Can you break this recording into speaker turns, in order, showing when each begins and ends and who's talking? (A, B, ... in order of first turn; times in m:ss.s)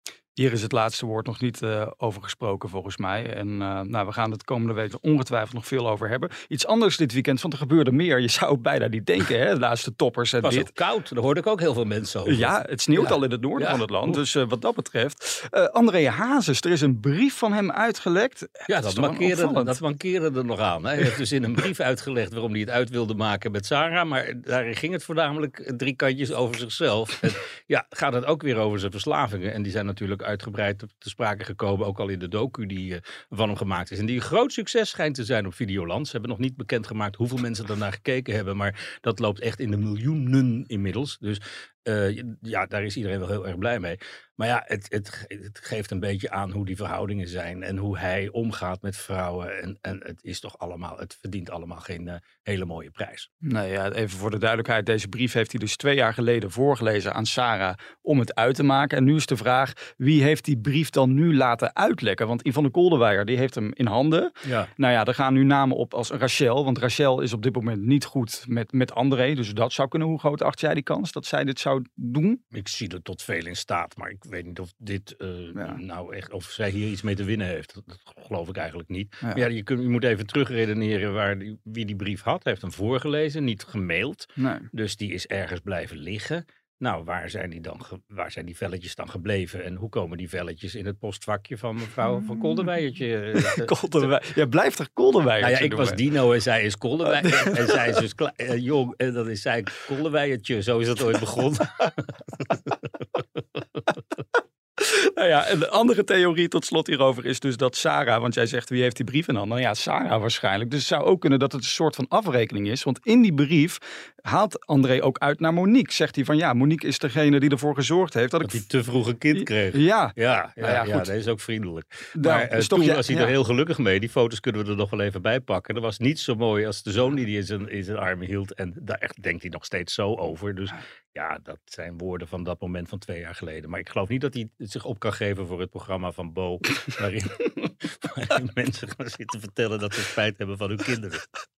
0:00.4-0:10.7 A
0:10.4-0:14.2 B
0:12.2-0:19.8 A
0:18.7-0:53.3 B
0:53.4-1:12.4 A
1:04.4-1:04.7 B
1:12.5-1:34.1 B
1:15.6-1:15.8 A
1:24.4-1:24.7 A
1:33.4-1:36.0 A
1:35.4-1:42.7 B
1:37.1-1:38.0 A
1:44.8-1:58.6 A
1:58.4-2:21.2 B
1:59.3-2:01.1 A
2:02.2-2:03.4 A